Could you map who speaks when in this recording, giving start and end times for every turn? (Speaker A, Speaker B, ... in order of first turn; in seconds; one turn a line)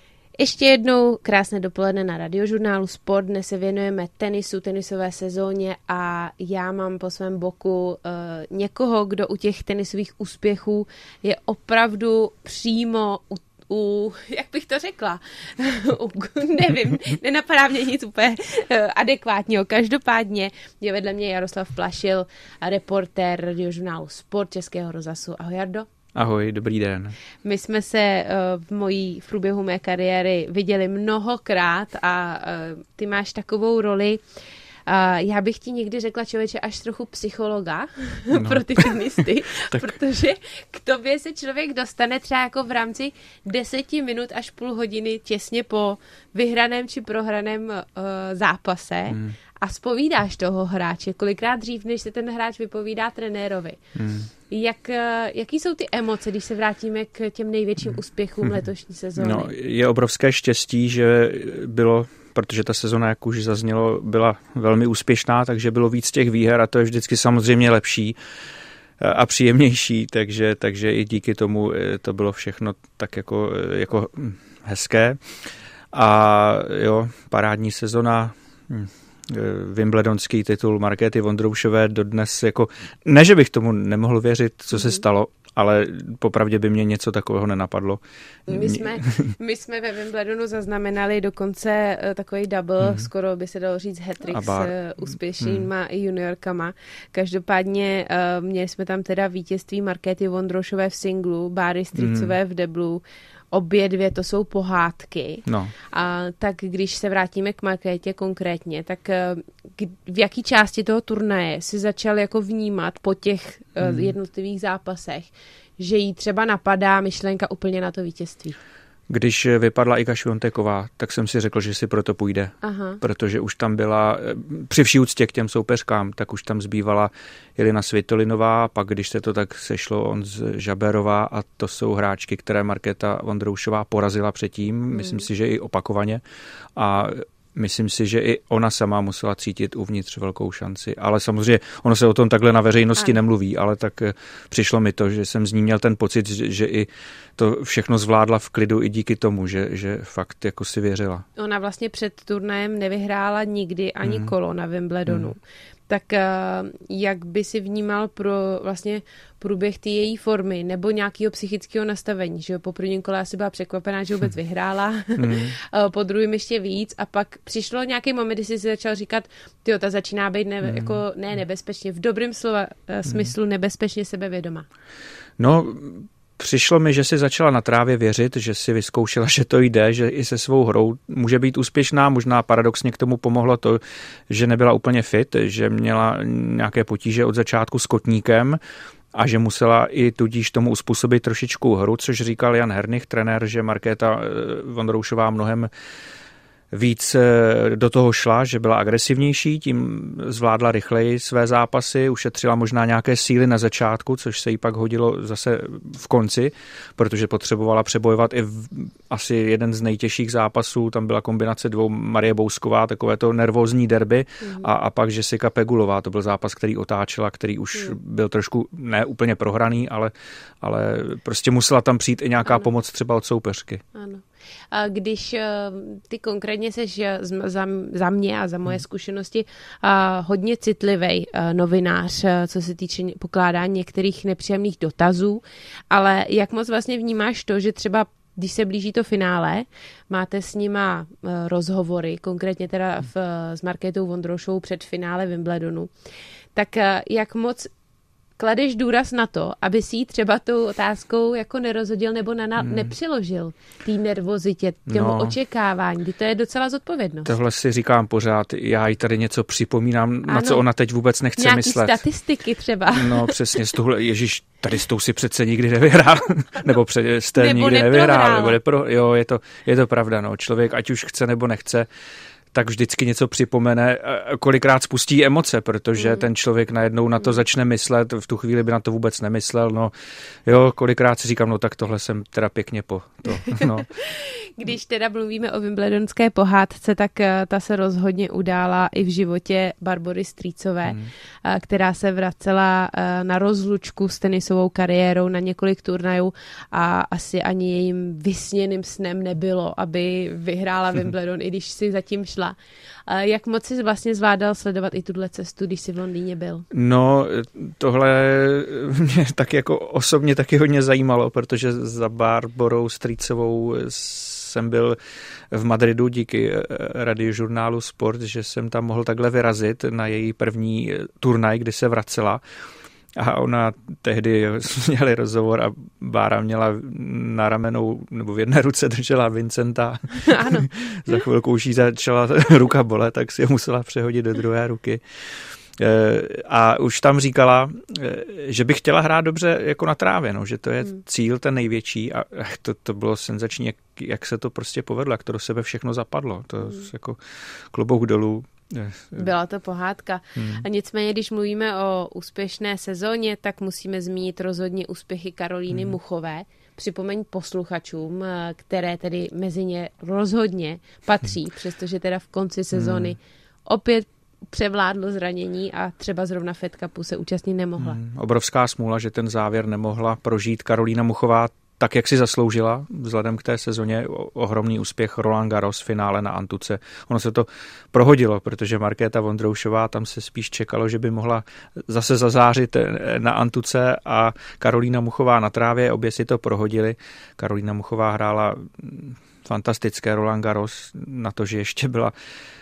Speaker A: 0.4-25.9
Speaker B: 26.1-27.2
Speaker A: 27.4-34.2
Speaker A: 34.9-53.8
Speaker B: 38.3-39.9
Speaker B: 49.1-49.4
Speaker B: 53.9-54.3
Speaker A: 54.5-59.5
Speaker B: 59.2-68.2
Speaker B: 69.0-75.2
Speaker B: 75.9-88.0
Speaker A: 84.7-85.0
Speaker A: 88.5-118.6
Speaker B: 88.5-89.3
Speaker B: 92.8-93.1
Speaker B: 94.3-94.7
Speaker B: 95.4-95.7
Speaker B: 102.0-102.3
Speaker B: 105.5-105.7
Speaker B: 113.8-114.1
Speaker B: 119.1-136.2
Speaker A: 122.6-123.0
Speaker A: 134.9-135.2
Speaker B: 136.8-151.2
Speaker A: 151.3-174.7
Speaker B: 154.0-154.3
Speaker B: 155.1-155.3
Speaker B: 165.2-165.5
Speaker B: 170.6-171.0
Speaker B: 175.4-188.6
Speaker B: 189.1-195.7
Speaker B: 196.7-223.8
Speaker A: 214.4-214.7
Speaker A: 223.9-245.9
Speaker A: 246.5-247.7
Speaker A: 248.4-257.3
Speaker B: 252.6-252.9
Speaker B: 254.9-255.3
Speaker B: 257.2-262.0
Speaker A: 260.2-260.6
Speaker A: 261.4-263.3
Speaker B: 262.9-271.9
Speaker A: 267.4-268.6
Speaker B: 272.5-279.9
Speaker A: 276.0-276.3
Speaker B: 280.4-284.0
Speaker A: 283.4-302.6
Speaker B: 290.8-291.1
Speaker A: 303.1-306.6
Speaker B: 306.7-315.0
Speaker B: 315.5-322.4
Speaker B: 323.1-347.2
Speaker A: 330.2-330.7
Speaker B: 347.7-349.3
Speaker A: 349.2-368.0
Speaker B: 350.4-350.6
Speaker B: 355.7-356.0
Speaker B: 362.7-363.1
Speaker B: 367.8-392.1